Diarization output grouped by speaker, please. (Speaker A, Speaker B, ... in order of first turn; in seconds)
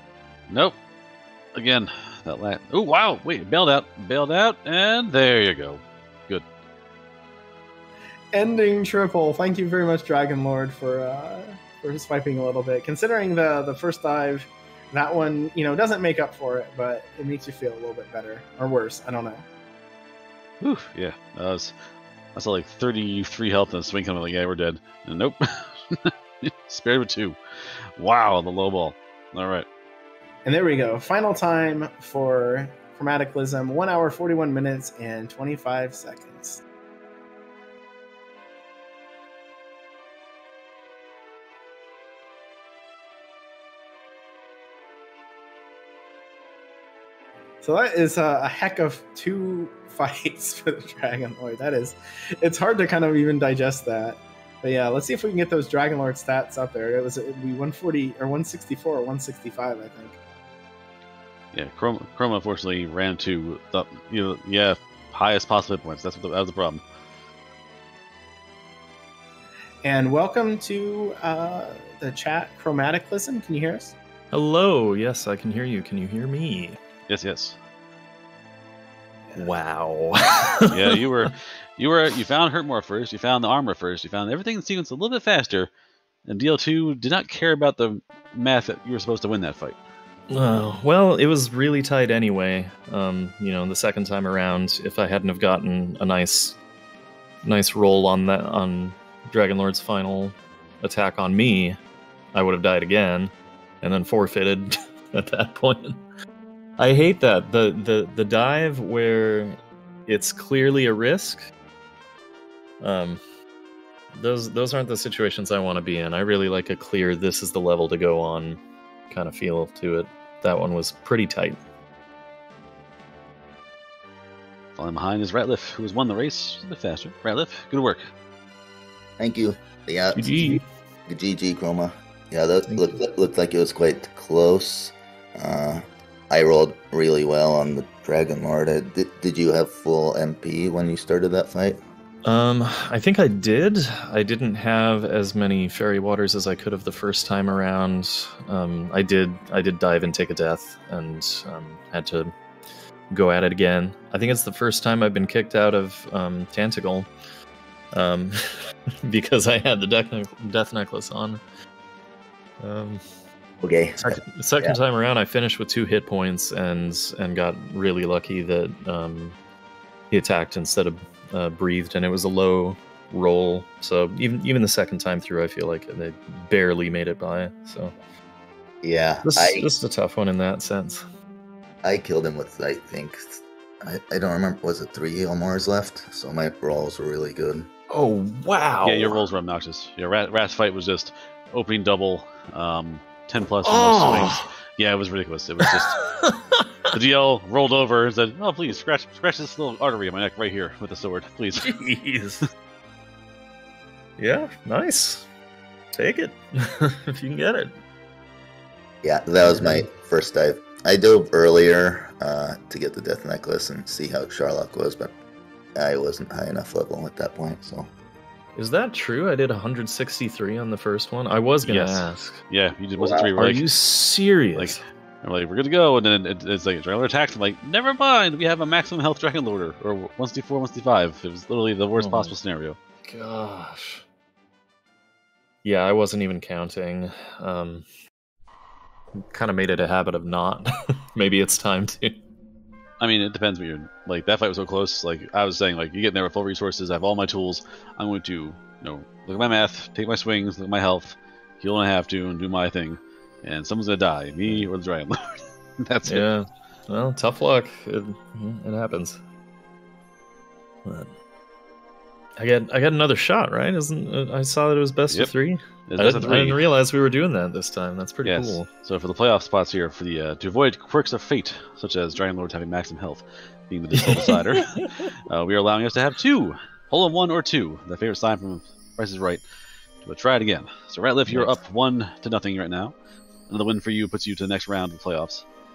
Speaker A: 0.5-0.8, 1.5-6.5, 20.6-21.8, 22.3-29.7, 61.5-66.8, 77.1-77.6, 80.7-85.7, 86.2-89.8, 124.8-128.1, 188.8-196.0, 196.9-201.7, 221.6-223.6, 224.6-232.8, 243.0-256.3, 265.9-266.6, 268.2-279.4, 280.0-282.9, 283.5-285.4
Speaker B: 8.3-19.4, 30.4-36.6, 47.6-60.2, 69.8-74.0
Speaker C: 74.3-76.8, 79.3-81.0, 90.3-96.6, 97.4-101.8, 102.3-106.0, 106.8-111.5, 112.8-113.2, 114.1-118.6, 119.1-121.6, 130.1-130.6, 132.7-132.9, 142.2-152.3, 153.1-157.1, 157.9-158.4, 159.0-161.4, 162.6-163.0, 164.0-169.3, 170.1-177.9, 179.2-181.0, 187.9-189.2, 193.6-194.5, 196.0-196.9, 201.6-202.4, 204.2-205.2, 205.9-207.8, 209.4-209.8, 218.6-222.4, 223.0-224.8, 232.0-232.3, 233.0-234.0, 235.6-237.8, 239.1-242.1, 256.0-259.2, 260.8-261.1, 262.4-268.7, 274.0-274.9, 281.3-281.6
Speaker D: 129.2-141.8, 163.6-164.8, 178.8-179.7, 181.8-187.7, 209.0-215.1, 215.7-217.9